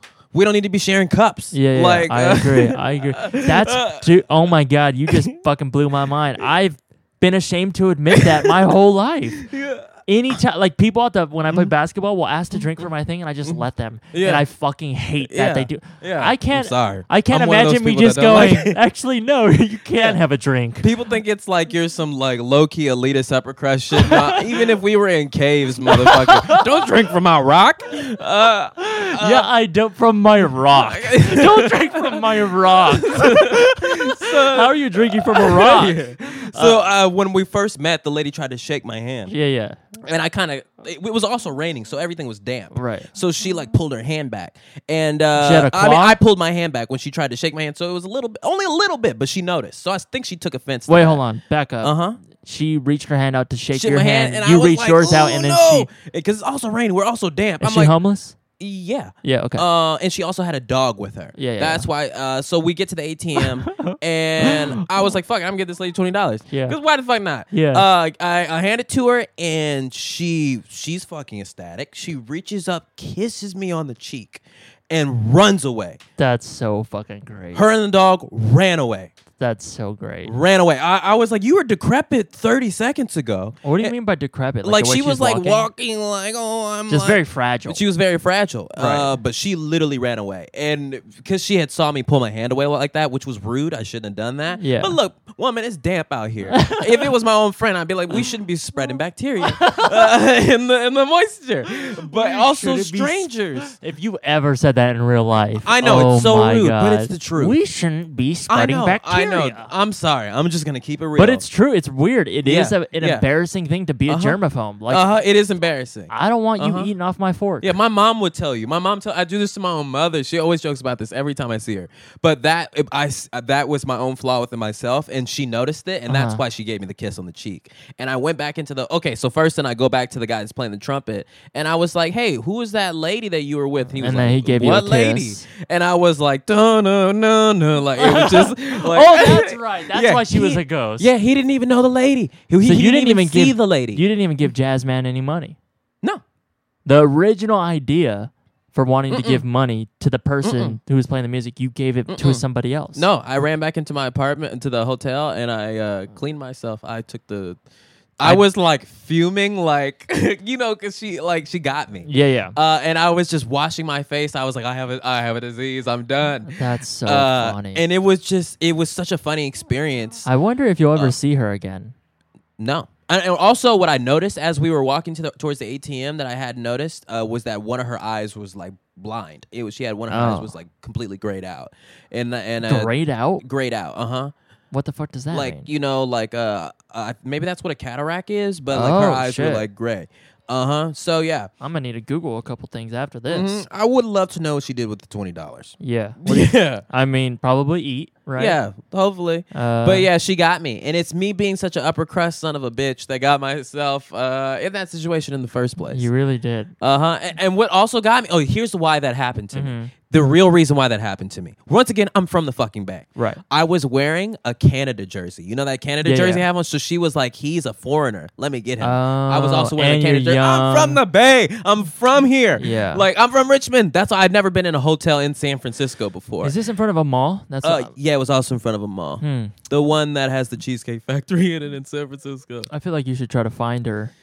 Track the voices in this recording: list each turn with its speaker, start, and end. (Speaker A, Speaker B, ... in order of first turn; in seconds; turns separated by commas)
Speaker A: 0.3-4.1, Speaker B: 1.5-9.5, Speaker A: 8.1-8.5, Speaker A: 9.4-9.9, Speaker B: 10.1-20.9, Speaker A: 13.4-14.4, Speaker A: 15.2-18.8, Speaker A: 20.8-29.5, Speaker B: 24.0-24.7, Speaker B: 25.8-26.9, Speaker B: 28.8-36.9, Speaker A: 30.7-39.3, Speaker B: 39.3-39.8, Speaker A: 40.0-51.2, Speaker B: 42.7-43.1, Speaker B: 45.4-46.2, Speaker B: 50.9-55.9, Speaker A: 51.8-52.2, Speaker A: 53.7-57.9, Speaker B: 57.6-58.4, Speaker A: 58.6-76.0, Speaker B: 59.2-59.6, Speaker B: 61.4-61.9, Speaker B: 63.7-64.8, Speaker B: 66.5-66.8, Speaker B: 67.5-67.8, Speaker B: 76.2-77.6, Speaker A: 77.5-79.1, Speaker B: 79.4-80.3, Speaker A: 80.2-83.9, Speaker B: 83.6-85.7, Speaker A: 84.6-103.8, Speaker B: 86.9-87.8, Speaker B: 88.8-89.2, Speaker B: 94.6-95.0, Speaker B: 96.5-97.1, Speaker B: 99.4-100.1, Speaker B: 101.9-109.7, Speaker A: 105.6-107.5, Speaker A: 108.5-111.4, Speaker B: 111.2-115.1, Speaker A: 112.4-113.2, Speaker A: 114.1-116.9, Speaker B: 116.1-117.8, Speaker A: 117.6-144.0, Speaker B: 126.1-126.4, Speaker B: 134.0-135.4, Speaker B: 138.0-141.1, Speaker B: 142.6-145.6, Speaker B: 146.8-153.1, Speaker A: 149.1-149.4, Speaker A: 150.4-150.8, Speaker A: 152.1-152.4, Speaker A: 152.9-157.6, Speaker A: 158.2-170.3, Speaker B: 162.1-162.6, Speaker B: 166.4-167.8, Speaker B: 170.2-171.9, Speaker A: 172.6-184.3, Speaker B: 180.1-180.5, Speaker B: 182.6-183.4, Speaker B: 184.7-185.7, Speaker A: 185.3-191.5, Speaker B: 188.7-189.7, Speaker B: 191.6-193.7, Speaker A: 193.3-196.8, Speaker B: 195.8-198.6, Speaker A: 198.4-206.1, Speaker B: 199.5-200.1, Speaker B: 205.9-206.7, Speaker A: 206.8-226.5, Speaker B: 209.5-209.9, Speaker B: 213.2-213.4, Speaker B: 216.0-216.4, Speaker B: 218.8-221.0, Speaker B: 222.6-223.0, Speaker B: 226.4-227.9, Speaker A: 227.6-232.7, Speaker B: 229.2-229.5, Speaker B: 232.7-234.1